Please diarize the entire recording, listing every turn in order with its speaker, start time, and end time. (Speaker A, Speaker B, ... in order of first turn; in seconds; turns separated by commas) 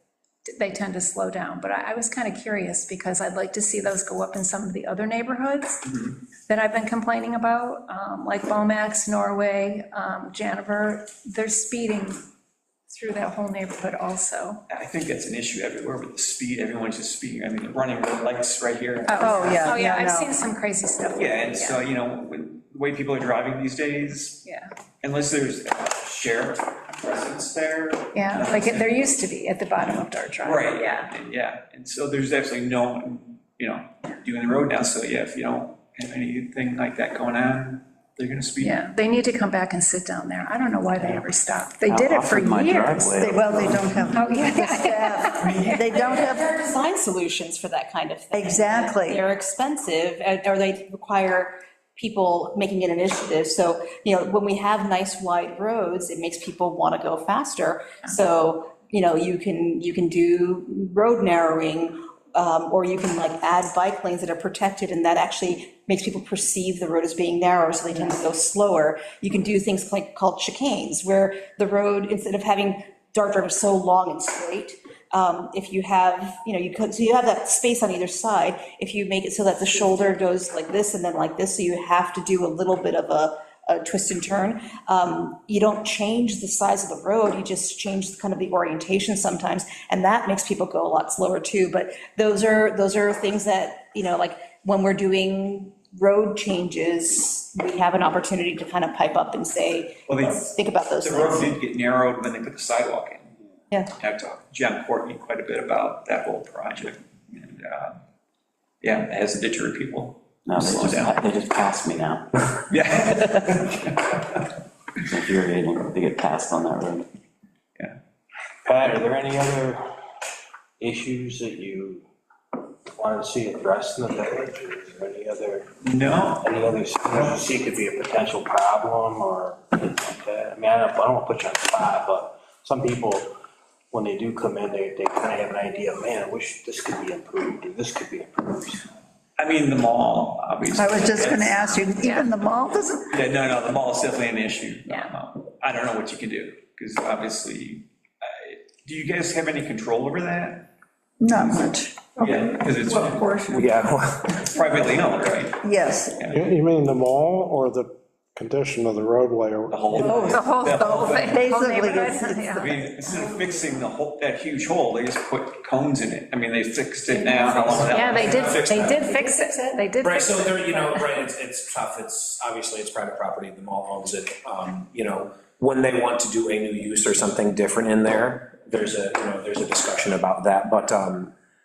Speaker A: 0.5-5.8, Speaker B: 5.8-6.2, Speaker A: 6.5-12.2, Speaker A: 12.9-14.6, Speaker B: 14.7-19.8, Speaker A: 19.1-21.9, Speaker C: 19.2-20.3, Speaker B: 21.1-24.4, Speaker B: 25.0-28.9, Speaker A: 28.1-31.1, Speaker B: 30.4-38.8, Speaker A: 38.6-43.1, Speaker D: 41.9-44.1, Speaker C: 43.1-46.5, Speaker A: 44.1-45.8, Speaker E: 45.4-101.5, Speaker C: 48.3-49.2, Speaker B: 100.1-103.3, Speaker B: 104.0-108.0, Speaker B: 108.8-111.2, Speaker D: 110.5-112.3, Speaker B: 112.6-114.4, Speaker D: 115.0-117.1, Speaker F: 118.6-119.8, Speaker F: 120.8-122.1, Speaker F: 122.9-125.7, Speaker B: 125.8-126.5, Speaker F: 126.4-133.3, Speaker F: 133.9-138.8, Speaker B: 139.4-141.9, Speaker C: 140.7-143.2, Speaker A: 142.0-142.3, Speaker B: 143.1-150.7, Speaker A: 144.9-145.1, Speaker C: 151.2-152.2, Speaker B: 152.2-153.7, Speaker G: 153.5-154.4, Speaker B: 154.4-155.7, Speaker C: 155.6-156.2, Speaker B: 156.2-156.4, Speaker H: 156.2-160.3, Speaker B: 159.7-161.7, Speaker C: 160.0-162.8, Speaker A: 160.2-162.8, Speaker B: 162.6-168.9, Speaker A: 167.3-171.0, Speaker G: 167.4-169.0, Speaker G: 170.0-181.3